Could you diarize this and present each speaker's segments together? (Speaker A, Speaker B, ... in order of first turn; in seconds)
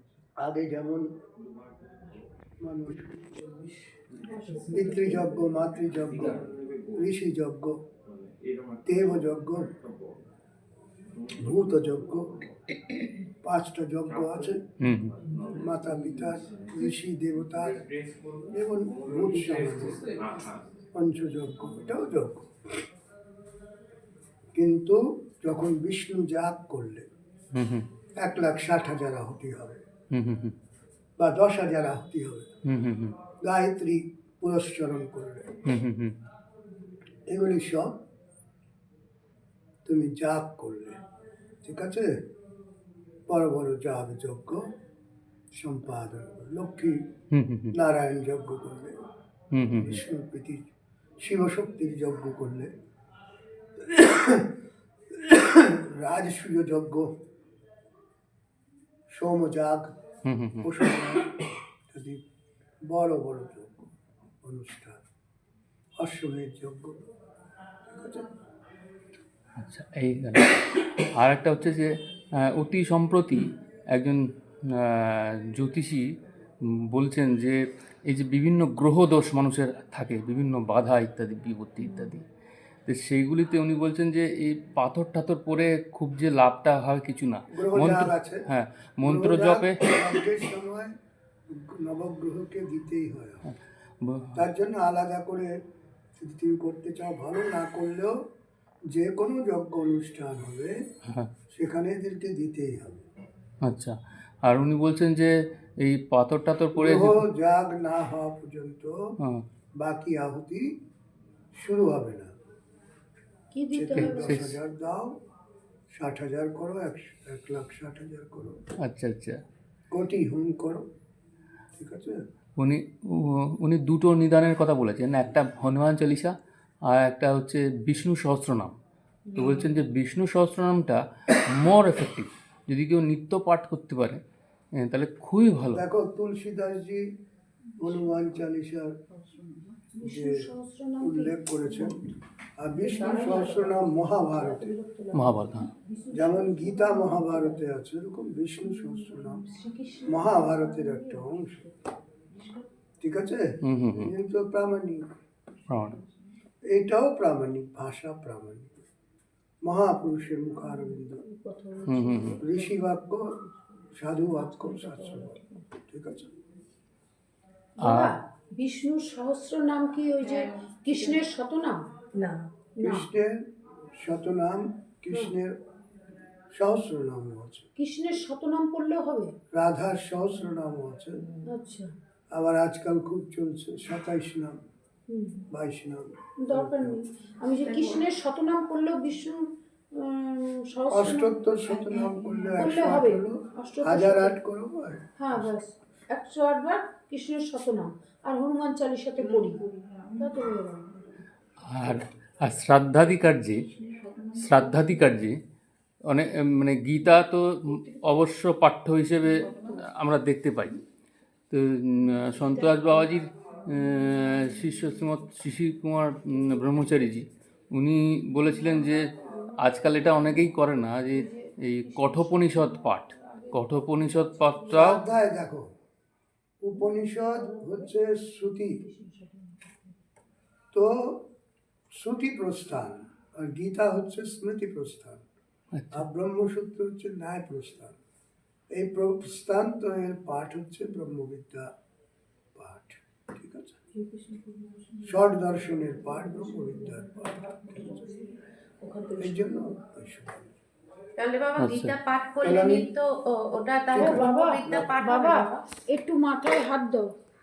Speaker A: 0.4-1.1, 2.6-3.3, 4.7-7.8, 8.8-9.7, 11.4-12.3, 13.4-14.6, 15.5-17.8, 18.5-20.1, 20.9-22.5, 24.5-27.1, 28.2-29.8, 31.2-32.5, 33.4-35.5, 37.3-38.0, 39.8-41.0, 41.6-42.1, 43.3-44.7, 45.5-47.0, 47.7-49.0, 49.8-50.7, 51.2-52.7, 53.8-54.5, 55.1-57.1, 59.1-59.9, 60.6-61.3, 61.9-62.2, 62.9-63.9, 64.4-65.0, 66.0-67.0, 67.9-68.3, 87.5-88.4, 89.0-90.9, 91.5-93.4, 94.3-95.5, 96.2-98.2, 98.9-100.8, 101.5-103.1, 106.8-109.0, 109.8-110.7, 111.6-112.3, 113.7-115.2, 116.0-118.6, 119.9-120.8, 121.8-122.2, 135.7-137.0, 137.8-138.9, 140.0-140.5, 141.0-142.0, 142.6-144.7, 146.1-149.4, 150.1-151.7, 153.0-155.1, 156.7-158.8, 159.7-161.2, 162.4-163.3, 163.9-165.3, 165.9-166.3, 172.8-173.4, 174.0-175.5, 176.5-177.7, 179.5-181.2, 182.3-184.6, 185.5-187.0, 190.9-195.4, 224.7-225.7, 226.6-228.8, 230.7-231.3, 232.0-235.3, 235.9-238.0, 238.7-241.7, 242.6-243.8, 245.0-248.1, 249.2-250.5, 252.4-252.8, 253.9-254.9
Speaker B: 4.2-5.4, 113.5-114.3, 129.3-129.5, 139.4-142.0, 142.8-147.7, 148.9-151.7, 152.3-152.6, 160.8-163.3, 164.5-165.6, 167.8-171.9, 172.7-173.1, 177.8-179.3, 181.5-181.9, 185.1-185.5, 186.4-194.3, 195.2-200.9, 227.2-227.9, 228.8-229.7, 243.9-245.0, 246.7-248.1, 248.8-249.4, 253.9-257.1
Speaker C: 14.8-15.2, 27.5-27.9, 30.1-30.5, 32.7-33.2, 35.7-36.2, 47.3-47.8, 49.5-50.0, 60.2-60.7, 69.6-76.1, 76.7-82.3, 82.9-90.1, 93.5-94.4, 101.0-101.3, 103.6-107.2, 114.0-114.6, 118.8-119.4, 122.6-126.3, 126.9-128.7, 129.3-134.2, 134.8-135.8, 145.1-145.7, 153.6-154.1, 155.7-156.0, 161.8-162.4, 167.8-168.2, 201.7-203.7, 204.3-205.4, 206.1-210.8, 211.5-225.0, 235.7-236.0, 251.6-251.9
Speaker D: 170.2-171.2, 187.6-188.1, 251.2-255.5